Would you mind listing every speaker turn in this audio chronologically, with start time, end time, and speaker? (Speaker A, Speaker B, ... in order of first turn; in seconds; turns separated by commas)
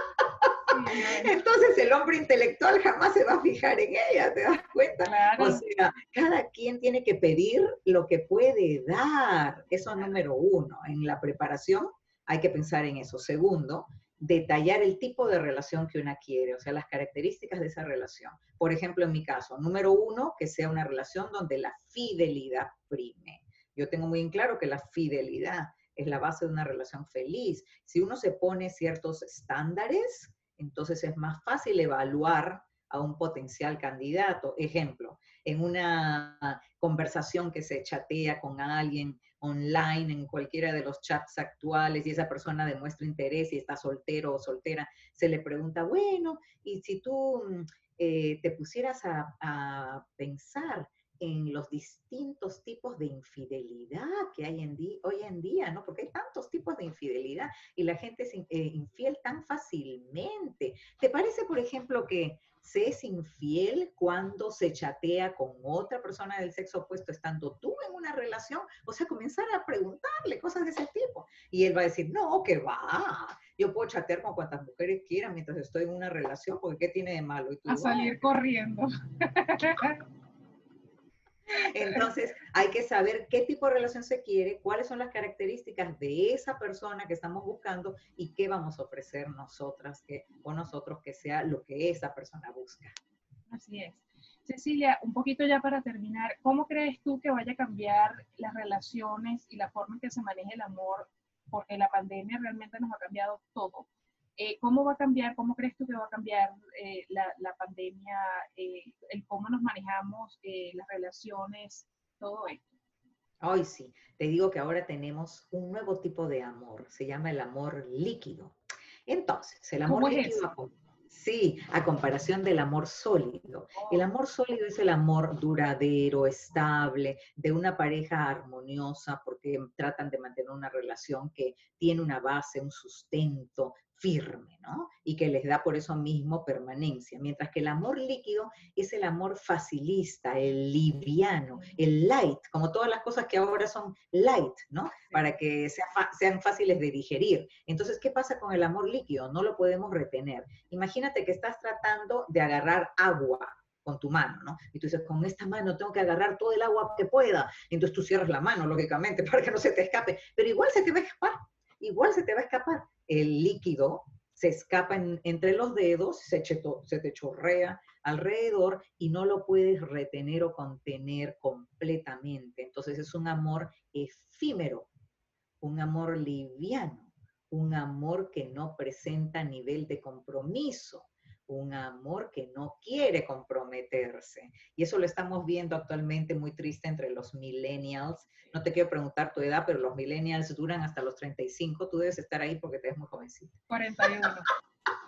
Speaker A: 0.7-1.4, Speaker B: 1.0-78.2, Speaker A: 5.0-5.6, Speaker A: 77.7-80.0, Speaker B: 81.5-92.9, Speaker A: 81.8-82.1, Speaker A: 93.5-112.6, Speaker B: 113.4-118.6, Speaker B: 119.1-174.9, Speaker A: 119.9-120.5, Speaker A: 123.8-124.0, Speaker A: 141.6-141.8, Speaker B: 175.6-193.6, Speaker A: 193.7-194.5